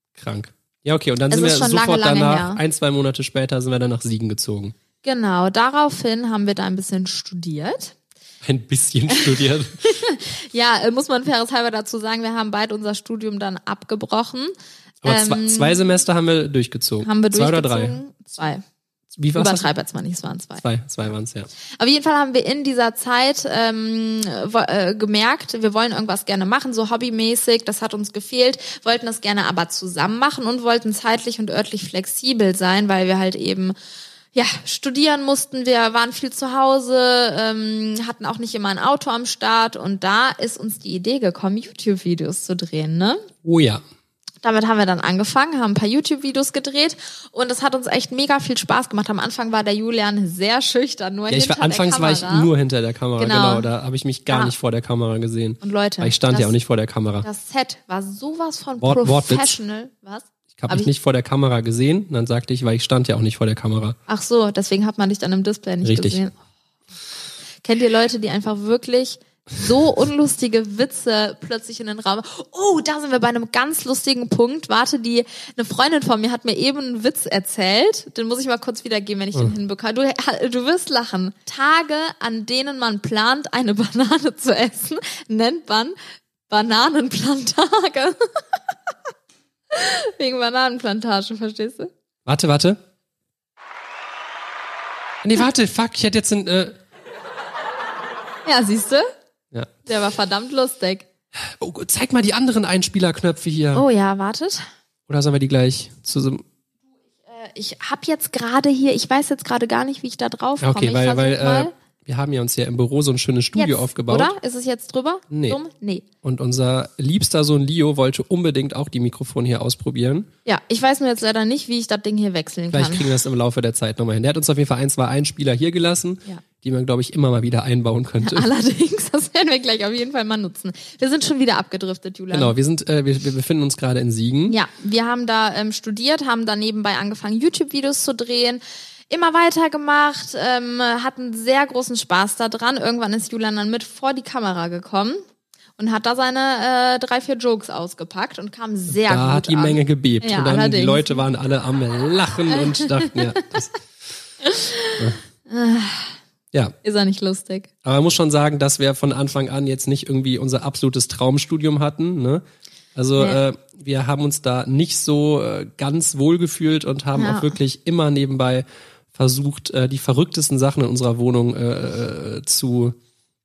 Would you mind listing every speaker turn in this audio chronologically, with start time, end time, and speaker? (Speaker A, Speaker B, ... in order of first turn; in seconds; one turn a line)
Speaker A: 0.2-4.8
Speaker B: 1.3-2.6
Speaker B: 5.0-8.0
Speaker A: 8.4-9.8
Speaker B: 9.1-15.8
Speaker A: 15.0-18.0
Speaker B: 17.0-18.6
Speaker A: 19.2-19.7
Speaker B: 19.4-20.6
Speaker A: 20.6-21.5
Speaker B: 21.8-33.8
Speaker B: 34.3-43.2
Speaker A: 43.4-43.8
Speaker B: 44.4-52.5
Speaker A: 51.3-57.3
Speaker B: 53.2-53.7
Speaker B: 54.3-54.5
Speaker B: 55.6-56.5
Speaker B: 57.2-60.9
Speaker A: 58.8-59.6
Speaker A: 60.5-64.0
Speaker B: 64.1-66.4
Speaker A: 65.8-66.2
Speaker B: 67.6-86.0
Speaker B: 86.5-88.7
Speaker B: 89.7-91.9
Speaker A: 92.3-92.8
Speaker A: 95.2-96.8
Speaker B: 98.5-99.1
Speaker B: 99.9-101.1
Speaker A: 101.6-103.9
Speaker B: 103.7-104.7
Speaker A: 105.1-106.4
Speaker B: 107.3-111.7
Speaker A: 110.6-114.3
Speaker B: 113.6-116.1
Speaker A: 115.3-115.6
Speaker A: 116.2-120.3
Speaker B: 120.5-123.1
Speaker A: 122.7-128.5
Speaker B: 128.2-132.5
Speaker A: 132.3-134.6
Speaker B: 134.5-145.2
Speaker B: 145.8-151.2
Speaker A: 148.9-153.8
Speaker B: 152.5-153.4
Speaker B: 154.4-156.2
Speaker B: 156.8-157.7
Speaker A: 157.8-173.0
Speaker B: 167.2-167.6